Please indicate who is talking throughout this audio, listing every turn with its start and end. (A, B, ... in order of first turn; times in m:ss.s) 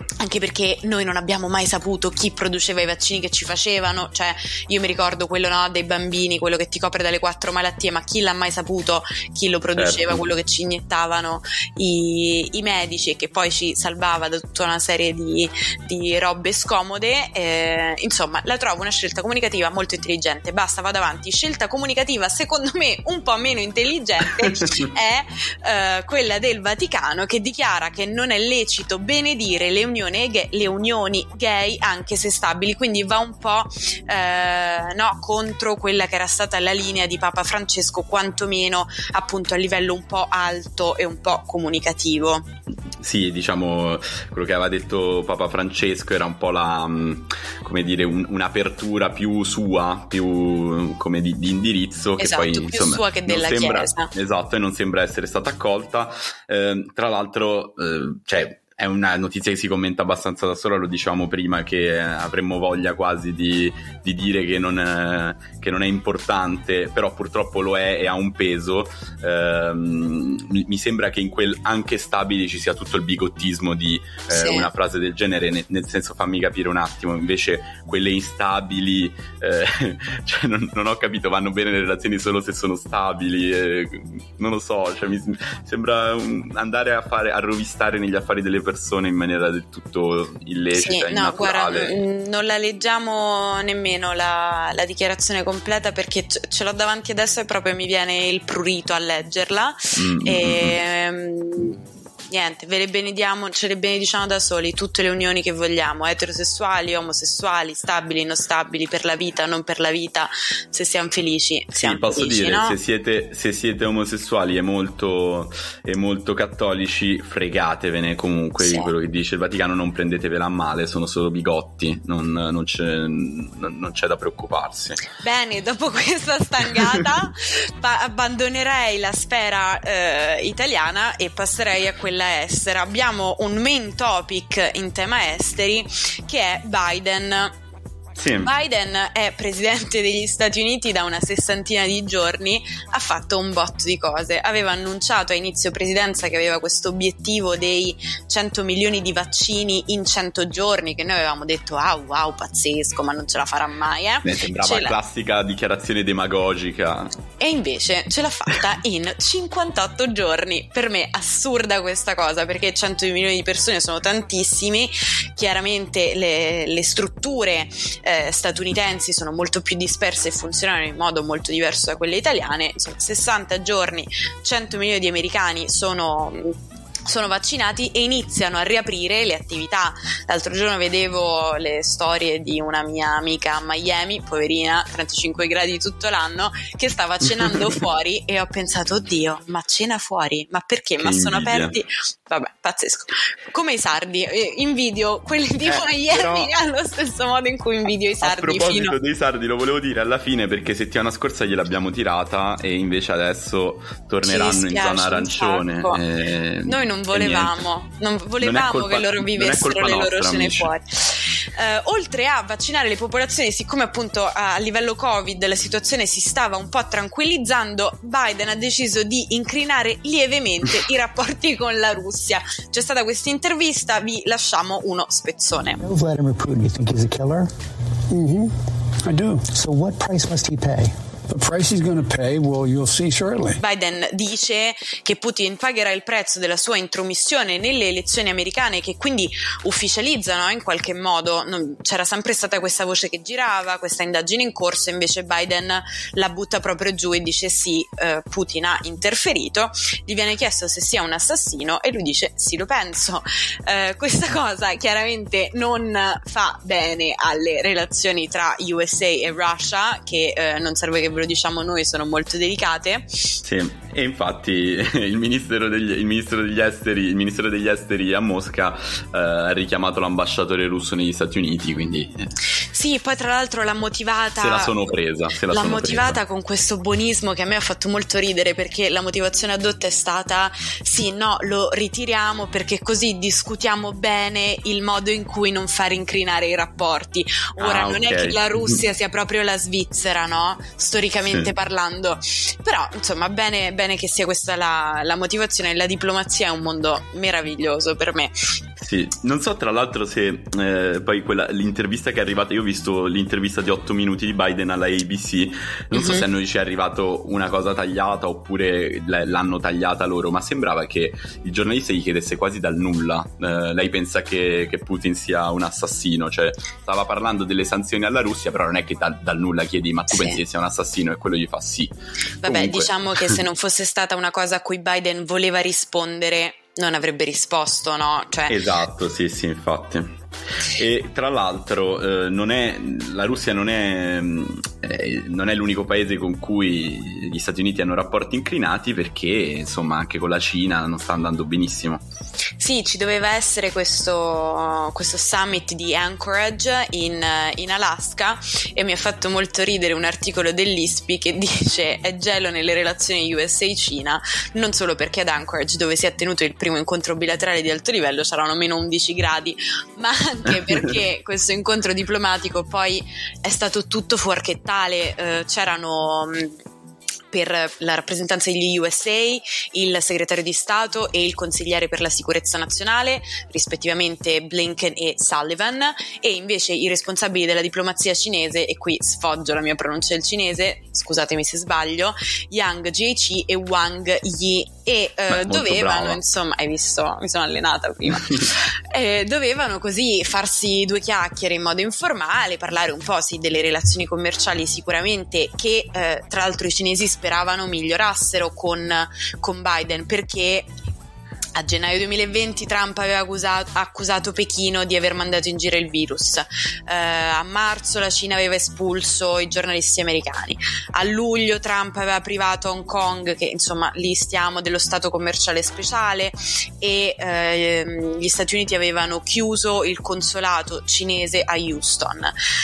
0:00.2-0:42.5 A
0:09.8-0:10.2 B
0:43.0-1:32.0 B
0:52.2-0:54.1 A
1:14.3-1:14.7 A
1:30.7-1:52.8 A
1:40.0-1:40.8 B
1:51.7-2:05.1 B
1:58.6-1:58.9 A
2:05.2-2:17.5 A
2:18.2-2:18.5 B
2:18.3-2:35.0 A
2:34.2-2:37.2 B
2:37.4-3:19.0 A
3:07.4-3:07.7 B
3:11.0-3:11.8 B
3:15.6-3:16.5 B
3:18.2-3:27.7 B
3:24.2-3:26.0 A
3:26.7-3:45.8 A
3:28.4-3:30.7 B
3:45.8-3:47.5 C
3:48.1-3:53.6 C
3:53.6-4:23.4 A
4:23.4-4:32.3 B
4:32.7-4:34.9 A
4:34.4-4:36.2 B
4:35.5-4:58.3 A
4:47.6-4:48.8 B
4:58.8-5:23.3 B
5:05.9-5:06.2 A
5:20.1-5:20.4 A
5:22.4-5:28.6 A
5:28.5-5:42.0 B
5:42.6-6:06.6 A
6:00.5-6:00.9 B
6:07.3-6:40.7 A
6:25.3-6:26.2 B
6:41.5-7:02.3 A